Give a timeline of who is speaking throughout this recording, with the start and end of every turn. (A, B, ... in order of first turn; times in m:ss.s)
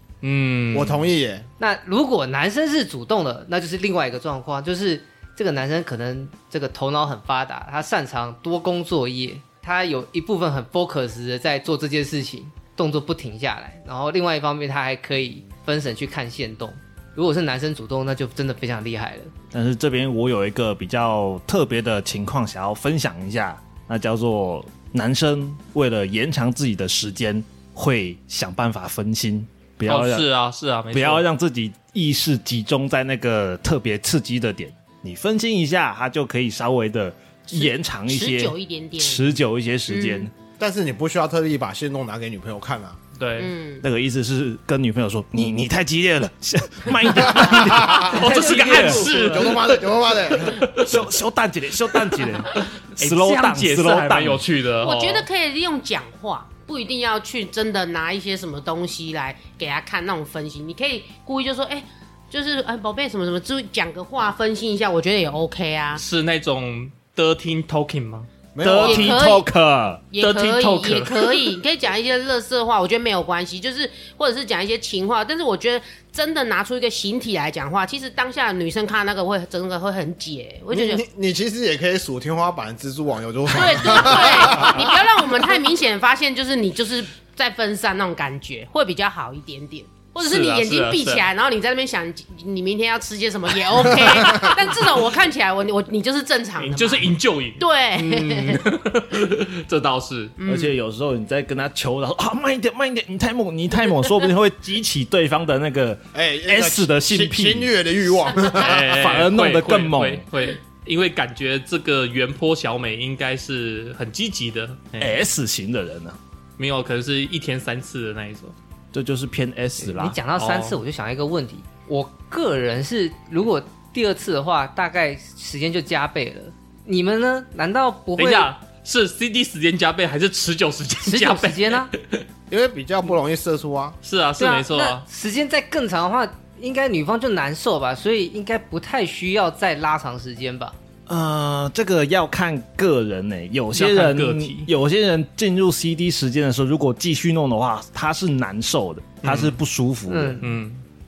0:00.2-0:01.1 A
0:00.7-0:01.5 B
0:01.6-0:19.3 C
0:19.5-0:30.3 D
0:29.9-0:31.2 A
0:30.9-0:40.3 D
0:37.6-0:40.3 E
0:40.6-0:43.0 B
0:43.2-0:43.5 A
0:43.4-0:43.8 E
0:43.8-0:49.1 D
0:47.5-0:48.2 B
0:47.8-0:51.0 A
0:48.2-0:49.3 C
0:48.8-0:50.6 B
0:50.7-0:54.4 D
0:51.9-0:55.3 A
0:54.8-1:06.0 E
1:06.0-1:08.3 A
1:08.6-1:09.2 B
1:08.6-1:10.0 D
1:08.8-1:09.5 E
1:10.1-1:21.0 E
1:10.2-1:11.6 A
1:20.7-1:24.9 B
1:23.5-1:38.6 E
1:30.2-1:31.3 A
1:36.6-1:40.4 A
1:40.4-1:40.8 E
1:40.4-1:47.7 D
1:46.1-1:49.0 B
1:48.5-1:55.2 A
1:48.8-1:50.3 D
1:55.0-1:56.2 D
1:56.6-1:58.6 A
1:58.9-2:00.2 D
1:59.8-2:08.5 C
2:00.4-2:00.8 A
2:08.2-2:12.2 A
2:11.0-2:11.9 C
2:12.5-2:14.0 B
2:14.0-2:15.0 A
2:14.4-2:20.8 C
2:21.1-2:30.4 D
2:23.7-2:24.7 A
2:29.2-2:29.6 A
2:30.1-2:30.5 C
2:30.4-2:30.8 A